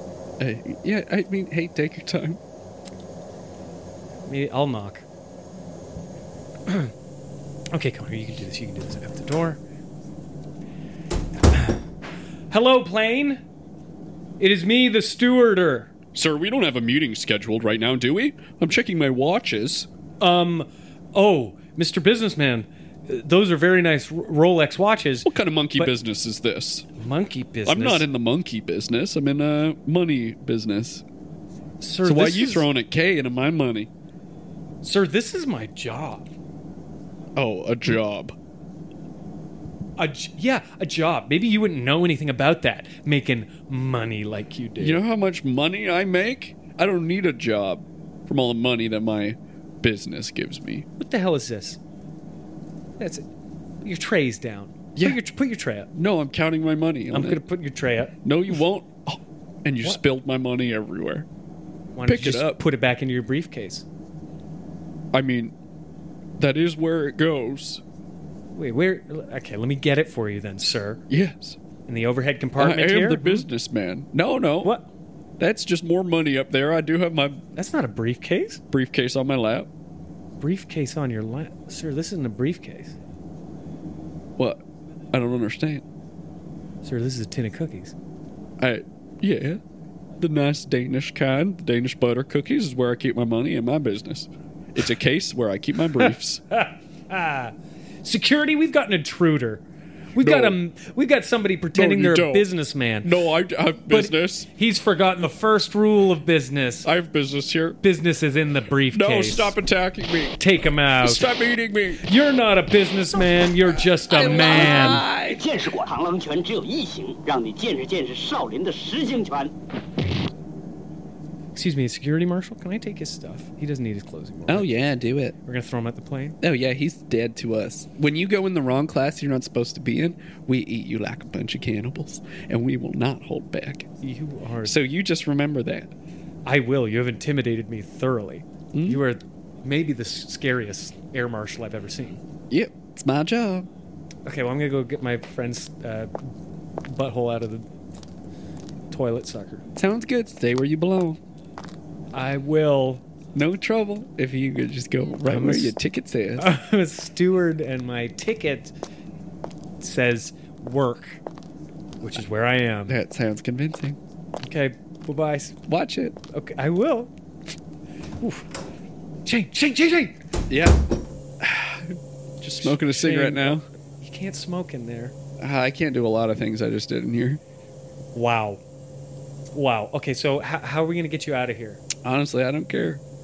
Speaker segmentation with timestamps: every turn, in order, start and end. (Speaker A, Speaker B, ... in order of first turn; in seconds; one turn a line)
Speaker A: 0.4-2.4
Speaker B: 4.2-5.0
Speaker B: 6.7-6.9
Speaker B: 7.7-9.6
Speaker B: 11.5-11.8
Speaker B: 12.5-13.4
Speaker B: 14.4-15.9
Speaker A: 16.1-19.9
Speaker B: 20.2-25.9
Speaker A: 25.2-26.9
Speaker B: 27.0-28.1
Speaker A: 27.7-31.0
Speaker B: 31.8-32.7
Speaker A: 32.0-33.9
Speaker B: 34.8-36.3
Speaker A: 37.4-38.4
Speaker B: 40.0-45.0
Speaker A: 44.8-50.9
Speaker B: 51.0-51.8
Speaker B: 53.0-53.2
Speaker B: 53.8-55.9
Speaker A: 55.9-57.4
Speaker B: 57.1-58.5
Speaker A: 58.2-61.3
Speaker B: 62.0-63.9
Speaker A: 62.0-62.6
Speaker A: 65.1-65.5
Speaker A: 66.4-67.8
Speaker B: 68.5-71.0
Speaker A: 71.1-71.6
Speaker B: 71.9-73.5
Speaker A: 72.6-74.8
Speaker A: 75.4-77.4
Speaker B: 77.6-78.6
Speaker A: 78.7-79.7
Speaker B: 80.4-83.0
Speaker A: 84.4-85.8
Speaker B: 86.8-88.0
Speaker A: 88.6-89.6
Speaker A: 90.2-96.4
Speaker B: 96.0-99.6
Speaker B: 100.2-103.2
Speaker A: 100.2-100.6
Speaker A: 101.7-102.5
Speaker A: 103.0-104.5
Speaker B: 103.9-106.9
Speaker A: 106.8-107.8
Speaker B: 107.8-109.6
Speaker A: 108.9-110.4
Speaker B: 110.4-111.3
Speaker A: 111.0-112.0
Speaker B: 112.0-115.0
Speaker A: 114.0-115.4
Speaker C: 114.3-119.5
Speaker B: 121.5-124.7
Speaker A: 124.5-125.4
Speaker B: 125.5-126.4
Speaker A: 126.4-133.9
Speaker B: 134.0-134.8
Speaker A: 134.6-135.9
Speaker B: 136.4-142.2
Speaker A: 138.7-139.0
Speaker A: 142.5-143.7
Speaker B: 144.3-146.1
Speaker B: 146.8-147.7
Speaker B: 148.9-149.7
Speaker A: 149.8-151.2
Speaker B: 152.1-153.0
Speaker A: 153.3-156.5
Speaker B: 155.3-155.8
Speaker B: 156.4-158.7
Speaker B: 159.8-161.2
Speaker B: 162.0-163.0
Speaker A: 162.9-164.0
Speaker B: 164.4-165.6
Speaker A: 165.7-166.2
Speaker B: 166.3-167.1
Speaker B: 168.2-168.5
Speaker B: 169.3-170.2
Speaker A: 170.5-170.8
Speaker A: 171.4-173.7
Speaker B: 172.6-175.2
Speaker A: 175.4-177.4
Speaker B: 178.1-178.6
Speaker B: 179.5-181.8
Speaker A: 182.0-183.0